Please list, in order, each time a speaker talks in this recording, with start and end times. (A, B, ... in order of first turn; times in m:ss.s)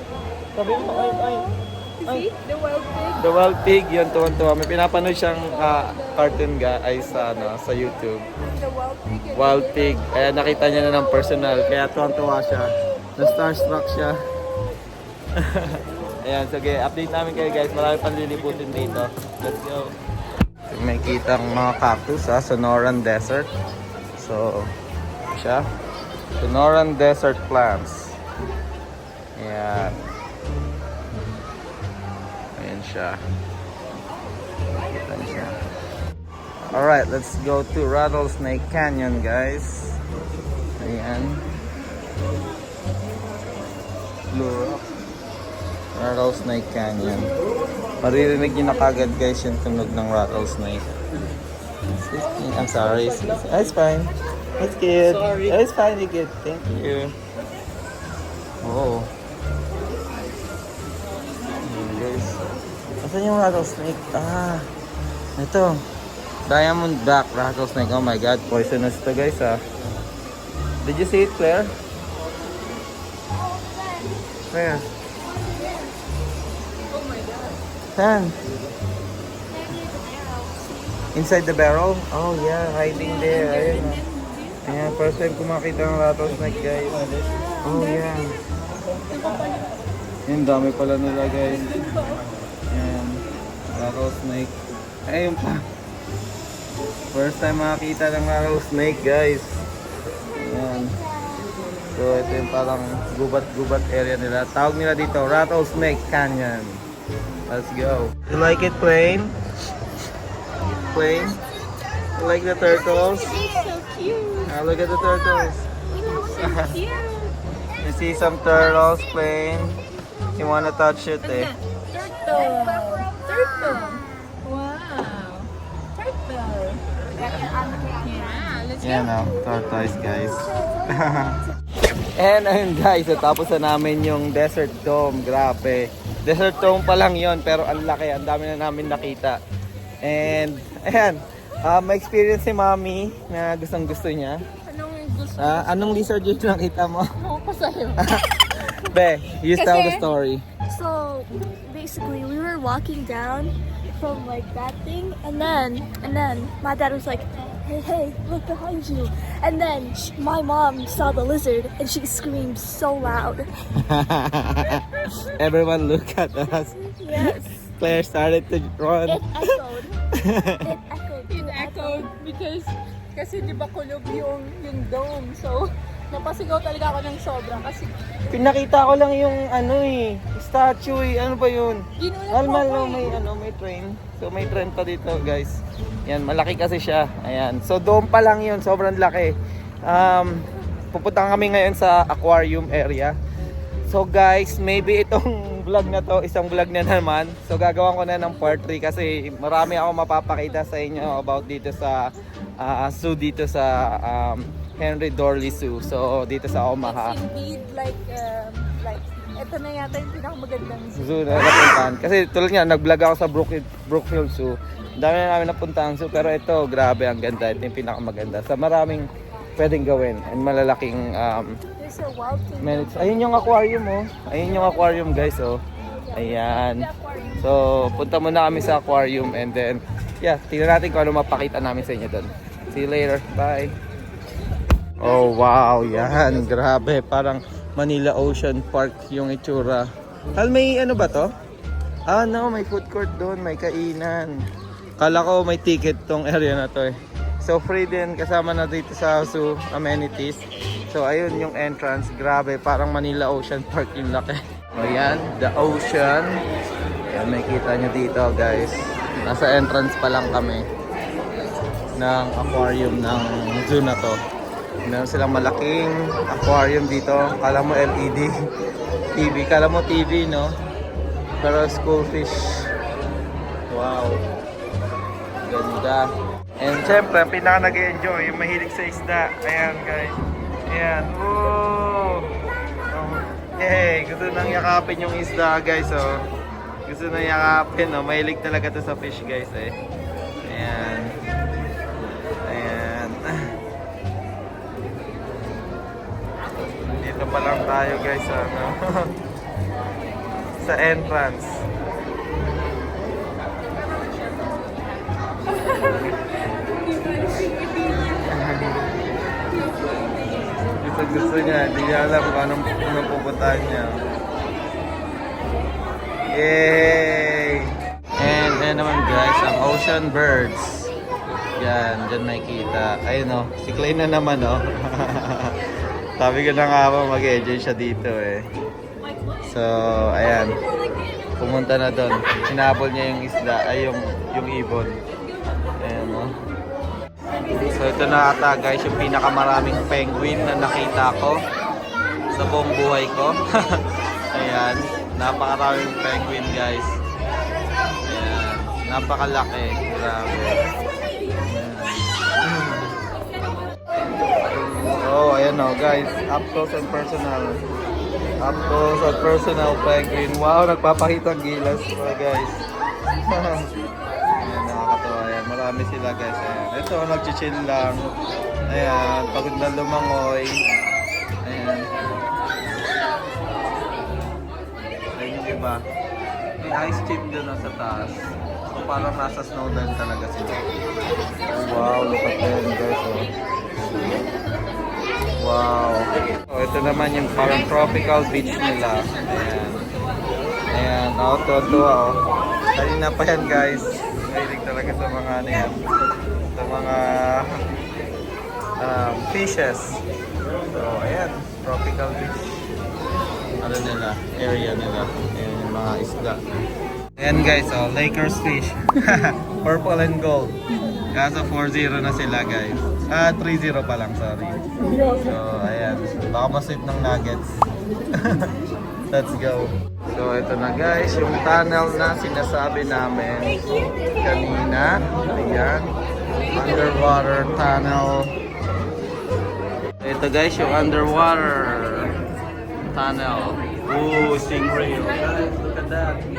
0:00.5-0:01.5 A
0:00.8-0:03.2 B
0:03.2-0:08.2 A
0:05.5-0:11.5 B
0:09.3-0:14.2 A
0:15.3-0:19.9 A
0:20.7-0:23.5 A
0:24.2-0:24.7 A
0:25.3-0:25.6 A
0:26.4-0:28.2 A
0:29.4-0:30.0 A
0:32.6-0:33.2 A
0:34.9-0:35.5 A
0:36.6-0:40.0 A
0:40.8-0:41.4 A
0:44.3-0:44.8 A
0:45.9-0:47.3 A
0:48.0-0:51.0 A
0:52.0-0:57.1 A
0:58.6-0:59.1 A
1:01.6-1:02.4 A
1:03.0-1:04.7 A
1:05.4-1:05.8 A
1:06.4-1:09.6 A
1:10.8-1:11.7 A
1:13.3-1:14.2 C
1:14.5-1:14.8 A
1:16.9-1:17.6 B
1:18.0-1:18.3 A
1:19.8-1:20.7 C
1:21.1-1:24.0 A
1:22.9-1:24.9 B
1:24.6-1:28.4 A
1:27.3-1:28.1 B
1:29.0-1:29.8 B
1:30.3-1:31.8 A
1:31.5-1:32.3 B
1:32.7-1:35.6 A
1:37.1-1:39.6 A
1:40.4-1:40.9 A
1:41.9-1:46.8 A
1:47.5-1:49.3 A
1:50.6-1:51.4 B
1:50.9-1:51.4 A
1:52.2-1:53.3 A
1:52.9-1:54.5 B
1:54.5-1:55.7 A
1:55.9-1:57.4 B
1:56.3-1:56.7 A
1:57.8-1:59.8 A
2:00.4-2:01.5 A
2:01.2-2:09.2 B
2:07.2-2:07.9 A
2:08.8-2:11.4 A
2:12.2-2:19.4 A
2:20.0-2:24.4 A
2:24.6-2:26.1 B
2:25.4-2:27.1 A
2:27.2-2:28.0 B
2:28.0-2:30.4 A
2:29.5-2:30.0 B
2:30.7-2:43.5 C
2:43.8-2:46.8 A
2:47.0-2:47.6 B
2:47.1-2:47.4 C
2:47.6-2:49.3 A
2:49.0-2:50.0 C
2:50.1-2:50.7 A
2:50.6-2:52.1 C
2:51.3-2:58.3 B
2:58.3-3:09.3 A
3:02.0-3:03.1 B
3:09.8-3:13.1 A
3:13.9-3:22.1 A
3:22.6-3:27.2 A
3:26.8-3:31.8 B
3:31.0-3:41.6 A
3:41.8-3:43.3 B
3:41.8-3:42.6 C
3:42.6-3:45.6 A
3:46.0-3:48.3 B
3:46.1-3:46.9 A
3:47.4-3:53.7 A
3:55.0-4:01.3 A
4:02.1-4:04.3 A
4:05.0-4:16.4 A
4:17.1-4:20.6 A
4:22.0-4:24.2 A
4:24.8-4:28.3 A
4:29.1-4:30.5 A
4:31.4-4:32.7 A
4:33.7-4:34.2 A
4:35.4-4:42.3 A
4:42.9-4:46.2 A
4:46.8-4:49.7 A
4:50.4-4:51.2 A
4:52.4-4:53.4 A
4:56.8-4:59.1 A
5:00.6-5:01.6 A
5:03.7-5:06.1 B
5:06.7-5:08.3 B
5:08.3-5:08.8 A
5:09.5-5:10.7 B
5:10.8-5:14.0 A
5:16.3-5:20.9 A
5:21.6-5:25.6 A
5:26.2-5:28.4 A
5:29.4-5:30.6 A
5:31.4-5:34.9 A
5:35.8-5:36.3 A
5:37.6-5:41.4 A
5:42.3-5:47.0 A
5:48.1-5:50.7 A
5:51.4-5:52.9 A
5:54.4-5:57.6 A
5:58.4-6:02.6 A
6:03.2-6:03.7 A
6:04.4-6:08.1 A
6:08.7-6:10.6 A
6:11.4-6:11.9 A
6:15.1-6:15.8 A
6:16.6-6:20.7 A
6:21.5-6:23.3 A
6:25.4-6:29.8 A
6:30.7-6:32.2 A
6:32.7-6:35.8 A
6:36.5-6:37.6 A
6:38.8-6:40.0 A
6:40.7-6:42.6 A
6:43.6-6:46.4 A
6:47.2-6:50.6 A
6:51.1-6:57.5 A
6:58.1-6:58.5 A
6:59.1-7:03.6 A
7:04.2-7:05.9 A
7:06.5-7:08.3 A
7:10.0-7:12.1 A
7:12.9-7:16.2 A